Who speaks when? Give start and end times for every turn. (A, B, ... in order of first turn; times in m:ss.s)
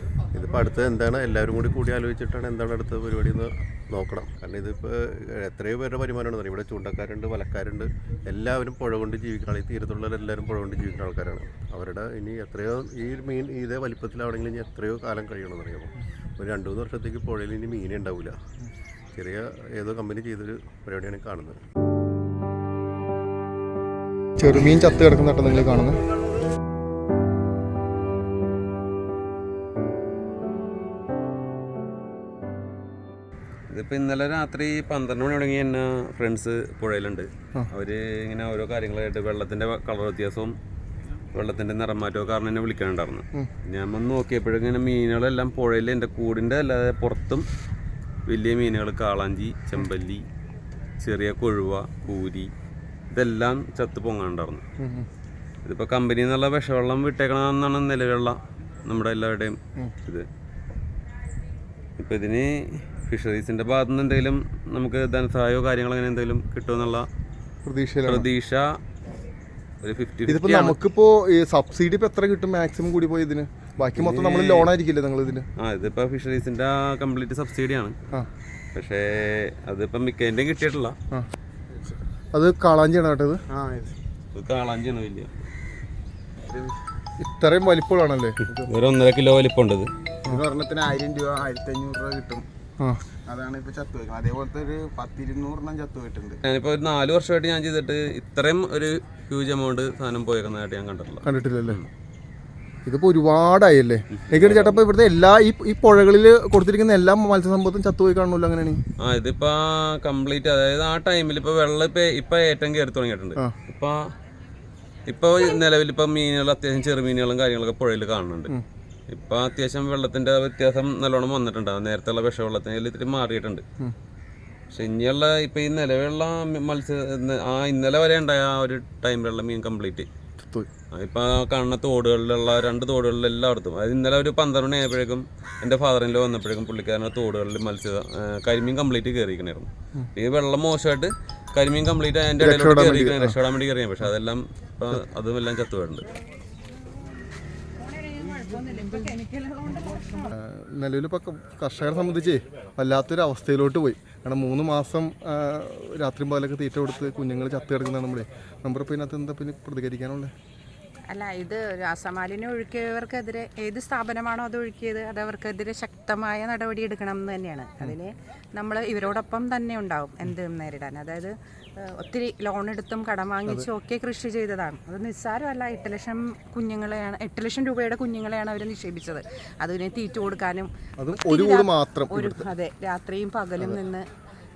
0:00.3-0:18.4 A
0:19.1-0:21.6 A
0:24.4-0:26.0 B
0:33.7-0:40.5 C
0:41.3-0:47.4 C
0:48.3-0:50.2 C
0:51.0-0:52.5 C
0:53.1-0:54.6 C
0:54.8-0:55.1 B
0:55.6-1:00.2 C
1:02.0-1:07.1 C
1:07.6-1:08.3 B
1:08.0-1:08.8 C
1:09.8-1:10.8 C
1:10.3-1:15.4 B
1:14.0-1:14.7 C
1:15.6-1:17.9 C
1:18.7-1:21.0 C
1:22.3-1:23.4 B
1:23.5-1:24.0 D
1:24.3-1:25.3 C
1:26.5-1:26.7 D
1:27.2-1:28.4 B
1:28.7-1:29.9 C
1:30.2-1:32.4 D
1:33.3-1:36.4 D
1:36.4-1:41.9 C
1:41.2-1:41.8 B
1:42.8-1:48.8 B
1:44.3-1:44.8 C
1:49.0-1:53.9 C
1:55.1-1:58.6 C
1:59.1-2:03.6 C
2:04.7-2:10.1 C
2:10.4-2:10.7 B
2:10.9-2:26.0 C
2:22.4-2:23.4 B
2:27.8-2:30.3 E
2:30.3-2:40.3 B
2:41.1-3:04.1 E
3:01.0-3:02.5 B